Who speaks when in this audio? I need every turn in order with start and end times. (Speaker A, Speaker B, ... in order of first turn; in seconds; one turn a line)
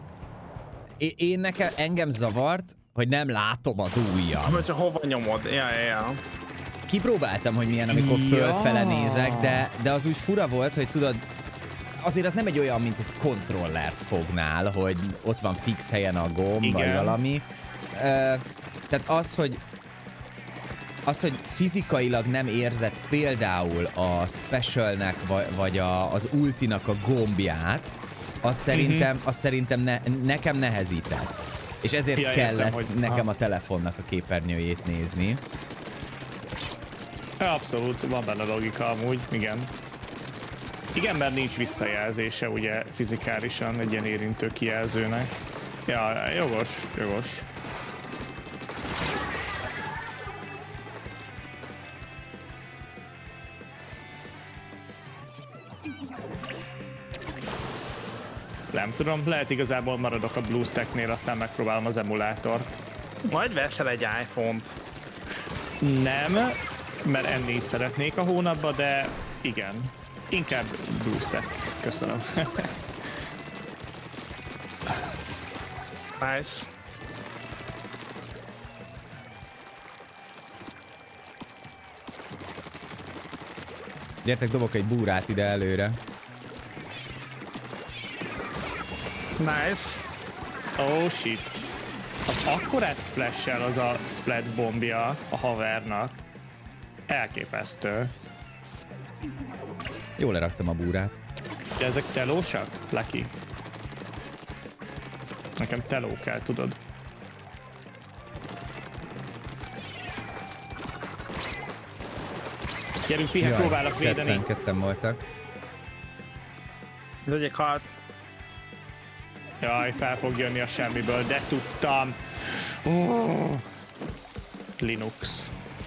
Speaker A: 1.0-4.7
Speaker B: 4.4-6.2
Speaker A: 6.9-11.2
Speaker C: 7.9-9.7
Speaker A: 11.8-19.6
Speaker C: 16.6-17.2
Speaker A: 21.1-35.4
Speaker C: 28.7-29.1
Speaker C: 32.1-33.3
Speaker C: 37.4-39.7
Speaker C: 40.9-45.3
Speaker C: 45.9-47.5
Speaker C: 58.7-62.7
Speaker B: 63.3-64.8
Speaker C: 65.8-72.7
Speaker B: 76.2-76.7
Speaker A: 84.2-86.0
Speaker B: 89.4-90.0
Speaker C: 90.8-91.5
Speaker C: 92.2-96.2
Speaker C: 97.1-98.1
Speaker A: 100.2-101.2
Speaker C: 101.8-103.3
Speaker C: 105.6-106.8
Speaker C: 113.1-114.4
Speaker A: 113.4-115.2
Speaker B: 117.2-117.9
Speaker C: 119.6-123.6
Speaker C: 124.8-125.5